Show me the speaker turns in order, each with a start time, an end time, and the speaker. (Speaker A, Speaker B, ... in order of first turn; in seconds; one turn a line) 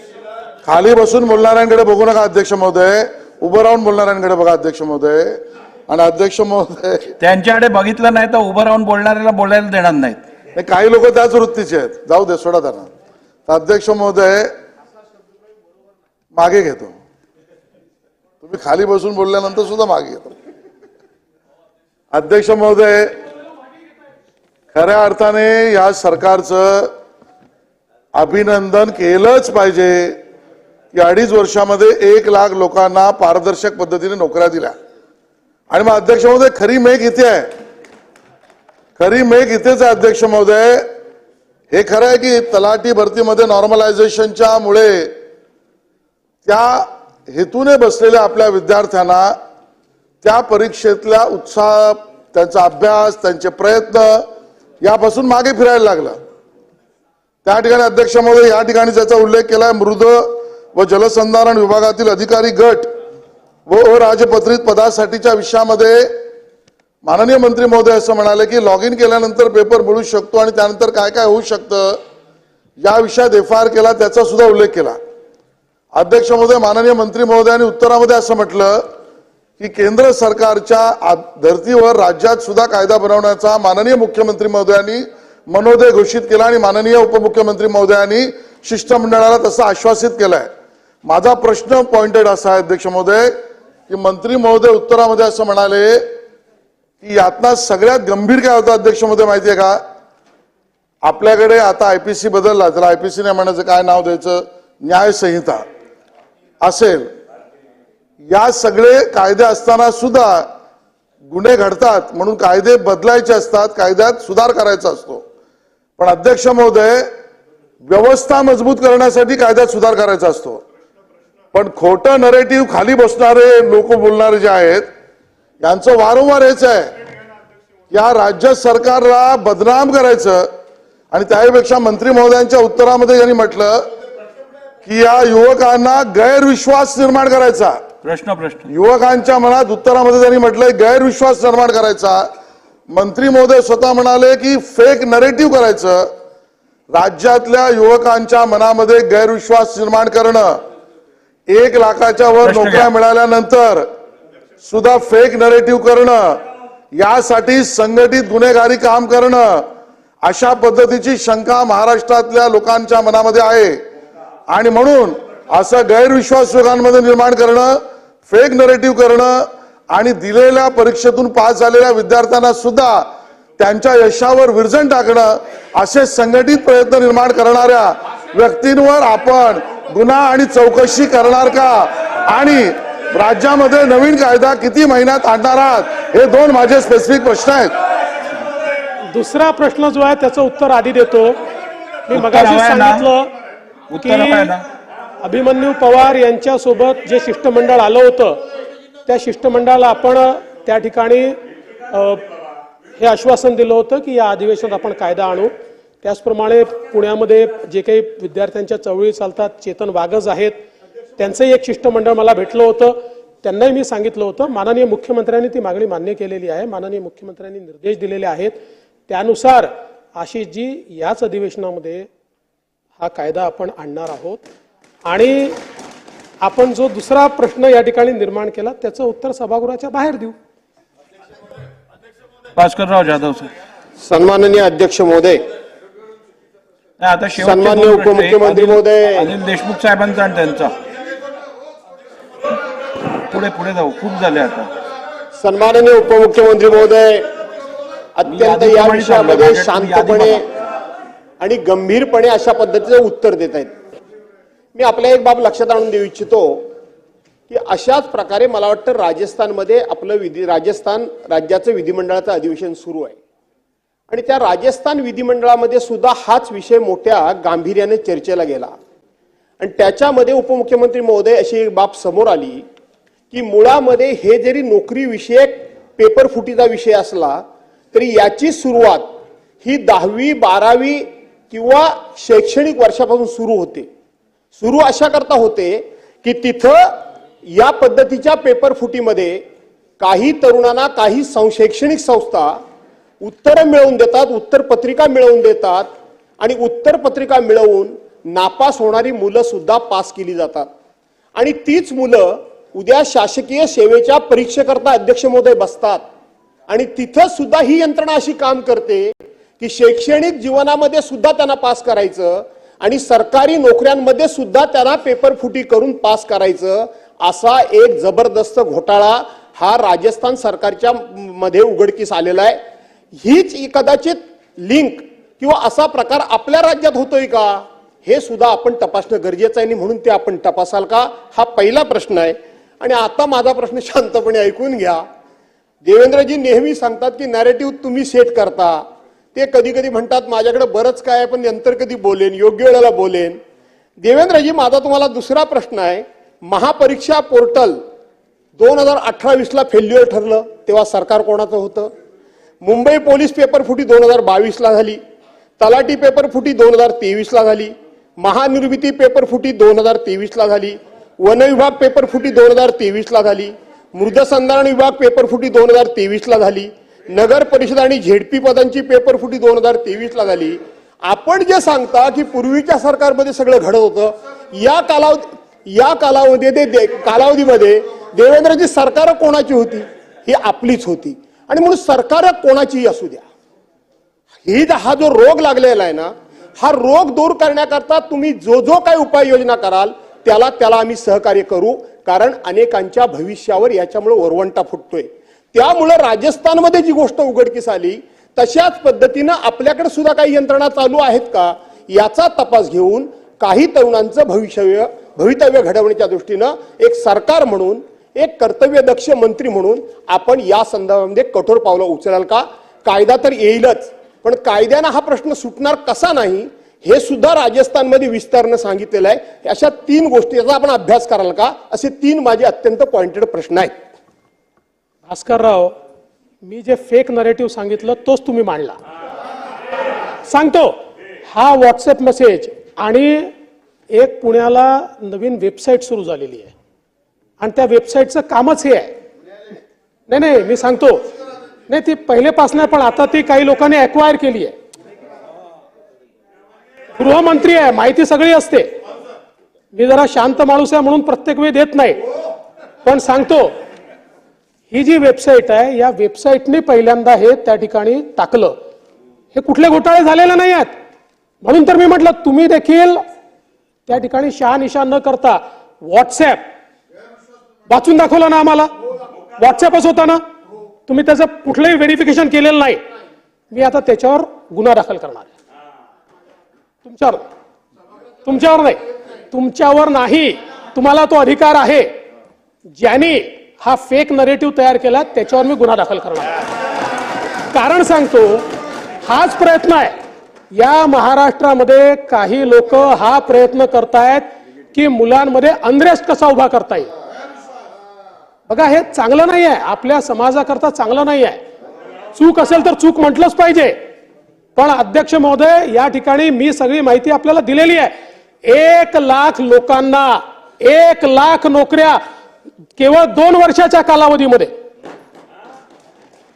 Speaker A: 0.6-7.1
Speaker B: 7.2-10.2
Speaker A: 10.6-12.9
Speaker A: 13.5-14.5
Speaker A: 16.3-16.9
Speaker A: 18.4-20.3
Speaker A: 22.1-23.1
Speaker A: 24.7-26.9
Speaker A: 28.1-30.2
Speaker A: 30.9-34.7
Speaker A: 35.7-37.5
Speaker A: 39.0-40.9
Speaker A: 41.7-45.1
Speaker A: 46.4-49.4
Speaker A: 50.2-54.3
Speaker A: 54.8-56.1
Speaker A: 57.4-62.9
Speaker A: 63.7-66.1
Speaker A: 67.0-72.0
Speaker A: 72.8-75.0
Speaker A: 75.9-78.8
Speaker A: 79.6-90.5
Speaker A: 91.0-93.3
Speaker A: 93.9-96.1
Speaker A: 97.0-99.8
Speaker A: 101.0-105.6
Speaker A: 106.6-107.1
Speaker A: 108.3-110.5
Speaker A: 111.3-115.2
Speaker A: 116.0-117.1
Speaker A: 117.9-120.6
Speaker A: 121.5-124.9
Speaker A: 125.6-126.9
Speaker A: 127.9-130.5
Speaker A: 131.1-133.9
Speaker A: 134.8-137.8
Speaker B: 138.0-138.7
Speaker A: 138.7-142.2
Speaker A: 142.9-146.1
Speaker A: 146.9-150.5
Speaker A: 151.5-153.8
Speaker B: 152.4-152.9
Speaker A: 154.6-156.4
Speaker A: 156.9-159.6
Speaker A: 160.2-163.8
Speaker A: 164.5-173.1
Speaker A: 173.6-187.7
Speaker C: 189.3-191.4
Speaker C: 192.1-193.3
Speaker B: 192.1-193.1
Speaker B: 193.9-194.6
Speaker C: 194.0-194.5
Speaker C: 195.2-198.4
Speaker C: 199.1-201.4
Speaker C: 201.9-202.2
Speaker C: 203.0-205.5
Speaker C: 206.0-210.6
Speaker C: 211.2-218.6
Speaker C: 219.1-222.1
Speaker C: 223.0-224.4
Speaker C: 225.1-225.6
Speaker C: 226.4-230.3
Speaker B: 232.6-233.5
Speaker D: 234.0-235.4
Speaker B: 237.0-240.7
Speaker D: 237.4-239.3
Speaker B: 243.3-244.7
Speaker D: 245.4-247.2
Speaker D: 248.2-250.4
Speaker B: 248.2-250.4
Speaker D: 251.4-253.7
Speaker D: 254.7-256.7
Speaker D: 257.5-263.2
Speaker D: 264.1-268.7
Speaker D: 269.6-272.6
Speaker D: 273.3-277.4
Speaker D: 277.9-283.9
Speaker D: 284.6-289.4
Speaker D: 290.0-292.6
Speaker D: 293.2-300.7
Speaker D: 301.4-306.0
Speaker D: 306.7-322.6
Speaker D: 323.2-335.0
Speaker D: 335.8-338.8
Speaker D: 339.3-343.4
Speaker D: 344.0-347.8
Speaker D: 348.6-351.9
Speaker D: 352.6-355.0
Speaker D: 355.6-383.2
Speaker D: 384.4-423.7
Speaker C: 425.1-425.7
Speaker C: 426.4-428.7
Speaker C: 430.3-430.7
Speaker C: 431.3-433.3
Speaker C: 434.0-436.5
Speaker C: 437.4-438.9
Speaker C: 440.1-441.1
Speaker C: 441.7-444.5
Speaker C: 447.0-448.6
Speaker C: 449.7-452.0
Speaker C: 452.8-453.5
Speaker C: 454.7-458.5
Speaker C: 459.3-460.7
Speaker C: 461.4-463.0
Speaker C: 463.9-465.4
Speaker C: 465.9-466.4
Speaker C: 467.7-468.7
Speaker C: 469.4-470.2
Speaker C: 470.9-472.8
Speaker C: 473.5-475.3
Speaker C: 476.8-477.2
Speaker C: 478.2-481.9
Speaker C: 482.8-486.4
Speaker C: 487.5-488.5
Speaker C: 489.1-489.9
Speaker C: 490.6-494.2
Speaker C: 494.8-496.9
Speaker C: 498.5-501.4
Speaker C: 502.2-503.7
Speaker C: 504.6-507.9
Speaker C: 508.5-512.0
Speaker C: 512.8-514.5